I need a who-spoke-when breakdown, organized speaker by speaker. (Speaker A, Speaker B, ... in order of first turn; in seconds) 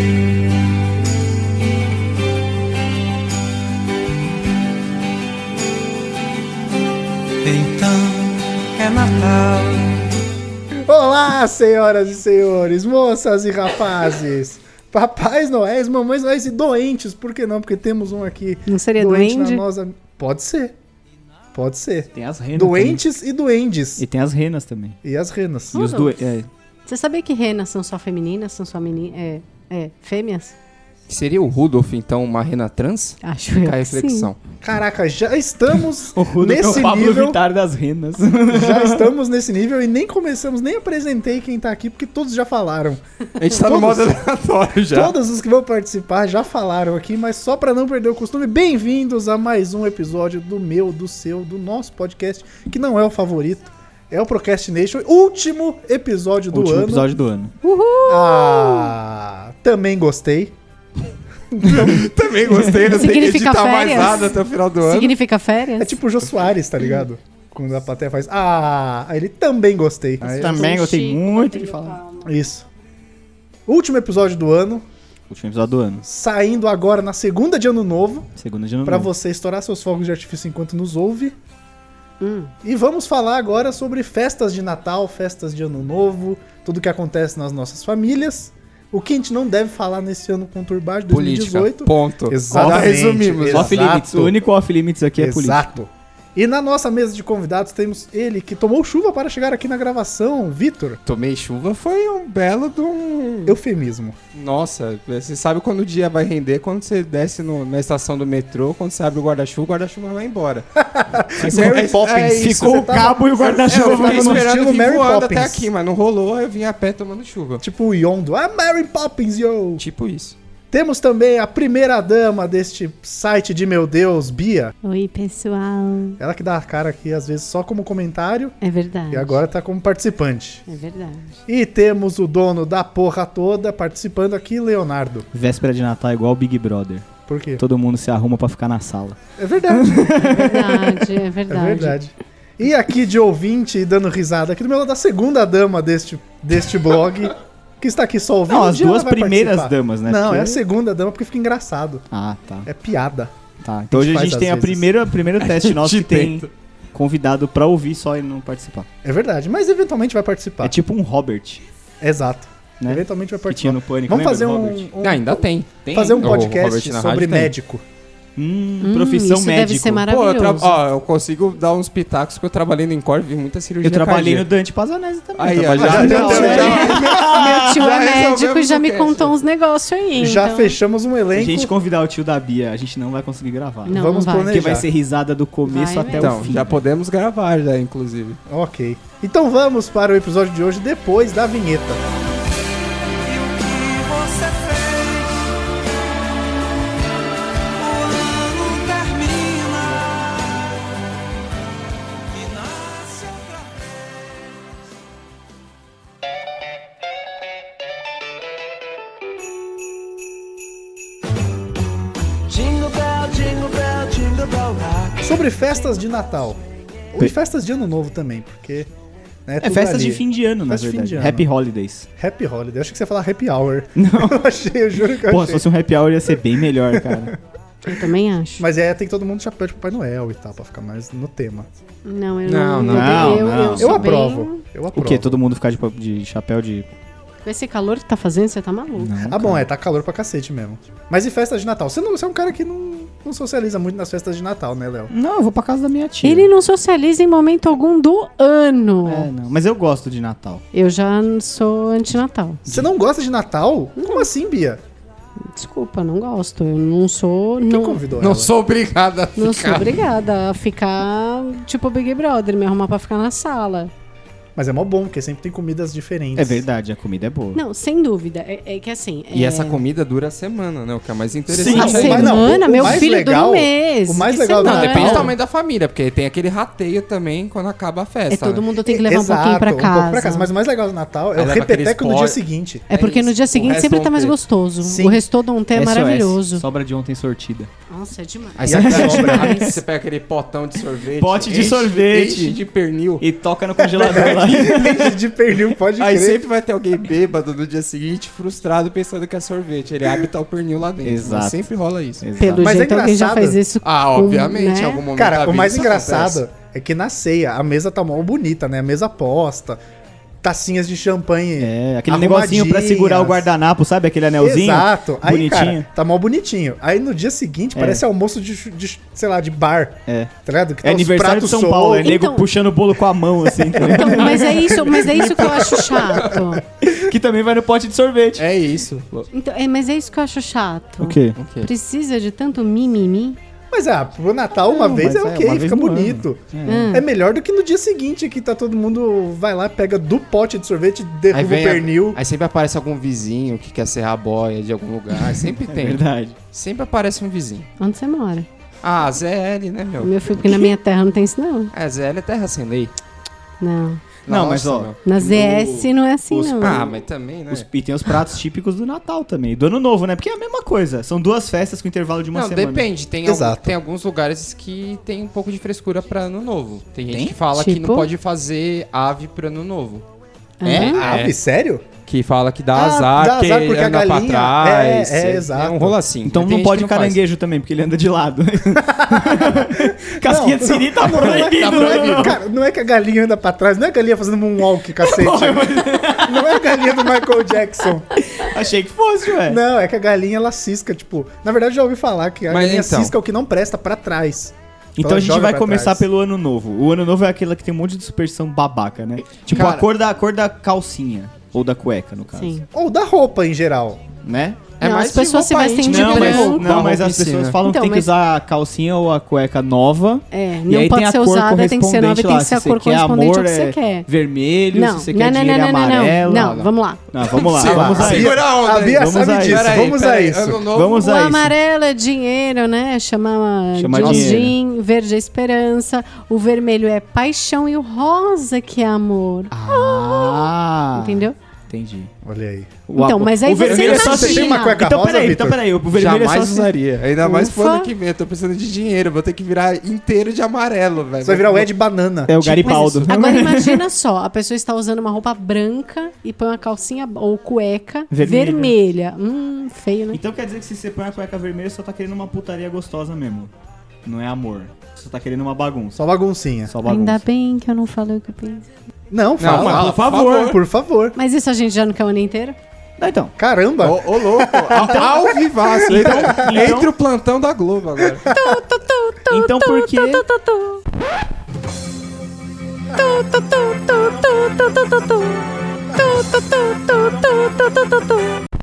Speaker A: 7.4-10.1, 193.2-195.5, 197.8-200.7, 202.3-203.6, 212.5-215.3
Speaker B: 10.8-20.8, 21.5-24.0, 25.0-25.9, 34.6-37.4, 38.5-44.2, 44.9-57.1, 58.0-60.5, 61.5-62.0, 65.8-70.6, 72.2-72.6, 73.7-74.8, 76.0-78.3, 78.8-81.3, 82.6-94.4, 95.2-101.0, 103.5-104.2, 110.8-115.7, 117.6-119.8, 120.7-124.7, 126.2-128.6, 129.1-130.7, 131.5-135.3, 137.3-137.6, 139.4-140.3, 141.5-152.0, 152.6-153.3, 153.9-154.9, 159.0-160.8, 162.0-167.8, 175.7-177.1, 180.2-181.7, 183.9-184.9, 188.5-192.0, 215.2-216.6, 217.1-218.9, 219.4-221.5, 222.2-225.7, 228.6-231.7, 233.8-235.4, 239.2-245.1, 252.7-254.8, 257.6-258.5, 264.6-266.6, 271.7-275.3, 278.8-282.9, 284.8-285.2, 288.6-289.5, 293.8-296.4, 302.6-303.6, 305.1-309.8, 310.4-313.5, 314.4-322.1, 323.6-324.3, 326.3-326.9, 333.7-342.2, 363.2-363.7, 370.8-371.8, 372.7-376.0, 378.8-388.1, 389.4-396.0, 402.7-404.0, 417.6-420.7, 432.2-432.8, 433.9-435.6, 441.2-442.3, 455.9-456.7, 459.1-461.1, 463.4-466.6, 468.0-468.6
Speaker C: 18.7-19.6, 25.7-26.2, 26.9-30.5, 33.2-34.3, 57.6-58.9, 62.8-66.0, 70.3-72.2, 82.2-82.5, 124.8-126.2, 128.6-129.4, 130.7-131.4, 140.3-141.9, 168.8-170.8, 176.2-180.8, 183.9-184.6, 185.6-186.8, 227.8-228.6, 232.0-234.6, 237.4-239.2, 246.2-249.3, 250.7-252.6, 254.0-254.3, 255.4-258.0, 259.4-263.9, 267.5-269.8, 271.7-275.3, 278.3-280.5, 282.9-286.6, 287.9-289.8, 302.4-305.0, 322.0-322.4, 323.9-326.6, 329.3-333.4, 336.6-337.1, 347.8-348.5, 350.0-351.7, 353.6-354.0, 355.0-356.9, 367.5-368.1, 370.6-371.0, 402.4-402.6, 404.8-406.7, 407.6-408.1, 410.3-414.1, 414.7-417.0, 421.0-431.4, 432.9-434.8, 437.2-437.9, 442.5-450.2, 456.8-458.7, 461.1-462.6, 468.3-470.8, 472.9-478.4
Speaker D: 22.1-23.0, 24.0-25.0, 25.7-26.5, 36.1-39.1, 56.5-57.5, 62.5-62.8, 70.2-72.0, 75.3-76.0, 78.4-79.1, 93.4-95.7, 111.4-114.5, 135.3-139.2, 139.7-141.1, 148.5-150.6, 152.1-152.7, 153.6-158.9, 160.6-161.6, 162.8-164.9, 165.8-166.4, 168.3-170.1, 173.8-177.9, 181.3-186.7, 219.6-222.1, 223.9-224.4, 225.1-227.3, 232.8-234.1, 234.9-236.9, 239.0-239.6, 245.1-246.5, 249.0-250.6, 266.4-267.6, 271.5-272.9, 285.7-287.7, 288.7-289.8, 291.1-292.6, 293.2-295.2, 301.0-301.6, 302.2-302.7, 311.6-315.9, 317.7-318.0, 320.1-326.3, 326.8-328.4, 331.0-331.4, 334.7-337.0, 345.2-346.4, 350.4-350.7, 354.3-356.9, 357.5-362.9, 367.1-367.4, 370.6-371.0, 376.2-382.4, 384.9-386.9, 388.1-389.6, 394.9-402.6, 404.2-404.7, 405.8-419.7, 420.7-421.5, 423.7-424.6, 429.5-432.1, 432.9-436.7, 442.3-443.8, 448.1-448.7, 450.1-453.5, 454.0-456.0, 456.7-457.2, 459.4-460.5, 463.0-463.3, 465.9-466.9, 469.3-470.2
Speaker E: 31.1-34.4, 43.4-45.1, 61.6-65.1, 91.1-93.8, 101.0-103.6, 104.3-110.6, 111.3-117.6, 119.8-120.3, 155.4-156.5, 165.0-167.5, 170.1-174.5, 175.4-179.3, 186.1-188.4, 232.4-233.5, 258.2-259.9, 269.3-272.5, 274.6-278.6, 281.4-284.3, 288.6-293.2, 296.0-302.2, 303.8-306.4, 328.4-329.1, 331.4-331.7, 341.3-347.7, 348.8-350.1, 351.7-352.9, 354.2-355.0, 356.6-357.7, 362.3-370.0, 370.7-371.3, 372.0-377.2, 381.6-382.3, 392.5-393.1, 399.5-399.9, 404.8-407.6, 417.3-421.1, 424.0-424.2, 433.7-434.1, 435.9-441.7, 442.4-443.1, 459.4-460.6, 463.8-468.3